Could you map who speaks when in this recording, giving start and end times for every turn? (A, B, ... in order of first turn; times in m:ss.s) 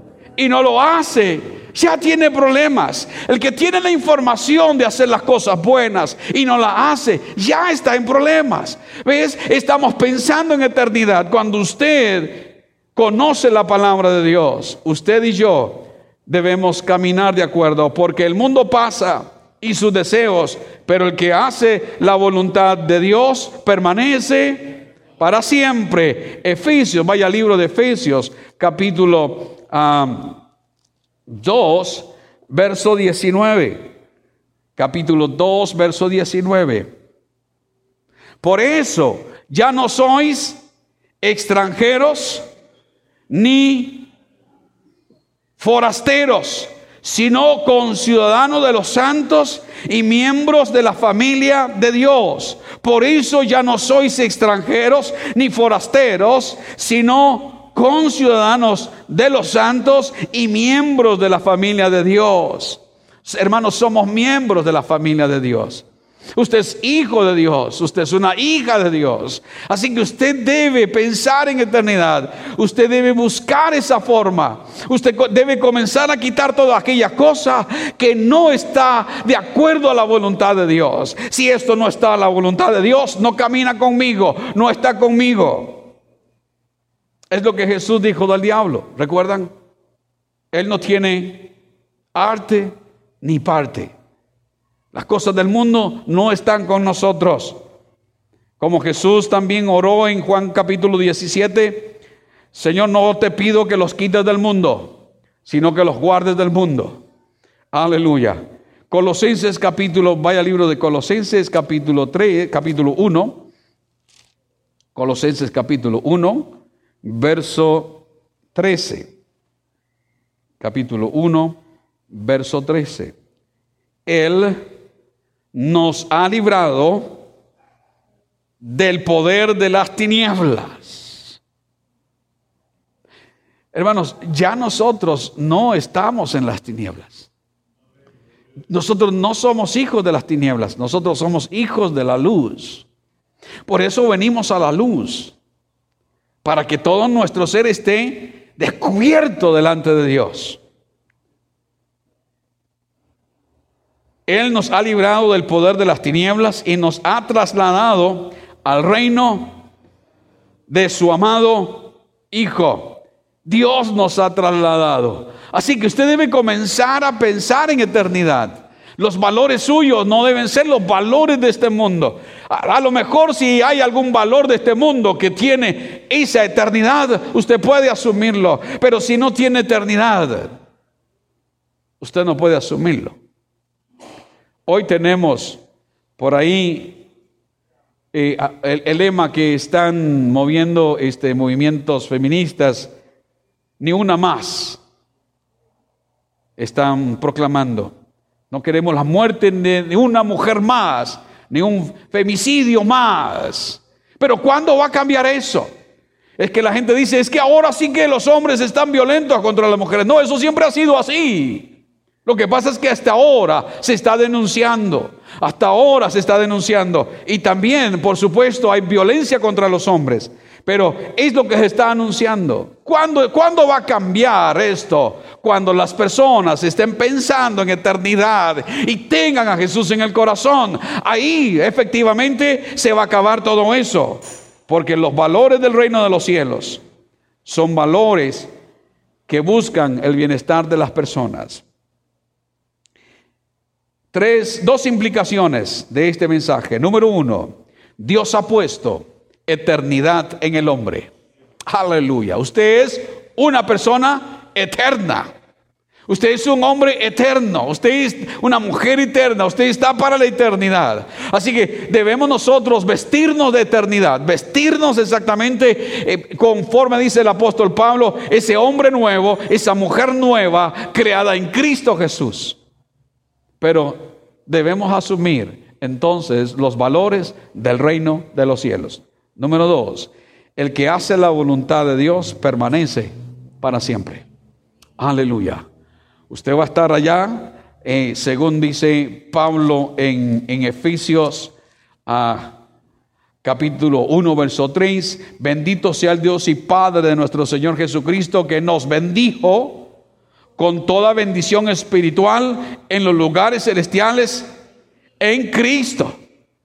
0:00.4-0:30.4 A
0:31.3-0:33.9 A
0:34.8-0:36.9 A
0:38.4-0:40.6 A
0:41.2-0:42.4 A
0:43.3-0:44.1 A
0:45.6-1:25.9 A
1:27.3-1:29.5 A
1:30.5-1:31.5 A
1:32.1-1:33.9 A
1:34.9-1:37.6 A
1:38.6-1:42.0 A
1:42.5-1:47.0 A
1:47.7-1:53.5 A
1:54.9-1:59.1 A
2:00.6-2:01.6 A
2:02.1-2:03.2 A
2:04.0-2:04.7 A
2:05.5-2:07.2 A
2:08.6-2:11.4 A
2:13.7-2:17.3 A
2:18.7-2:22.9 A
2:23.6-2:25.3 A
2:26.4-2:30.6 A
2:34.3-2:39.6 A
2:40.7-3:00.5 A
3:02.0-3:03.2 A
3:04.7-3:05.6 A
3:06.2-3:07.0 A
3:08.1-3:12.9 A
3:13.8-3:14.8 A
3:16.6-3:17.9 A
3:18.5-3:25.7 A
3:26.4-3:56.8 A
3:57.4-3:58.5 A
3:59.3-4:01.6 A
4:04.1-4:11.1 A
4:11.7-4:15.3 A
4:16.1-4:32.6 A
4:33.6-4:44.2 A
4:45.0-4:45.6 A
4:46.3-4:51.5 A
4:52.0-4:52.6 A
4:53.4-4:59.9 A
5:00.6-5:04.5 A
5:05.2-5:06.1 A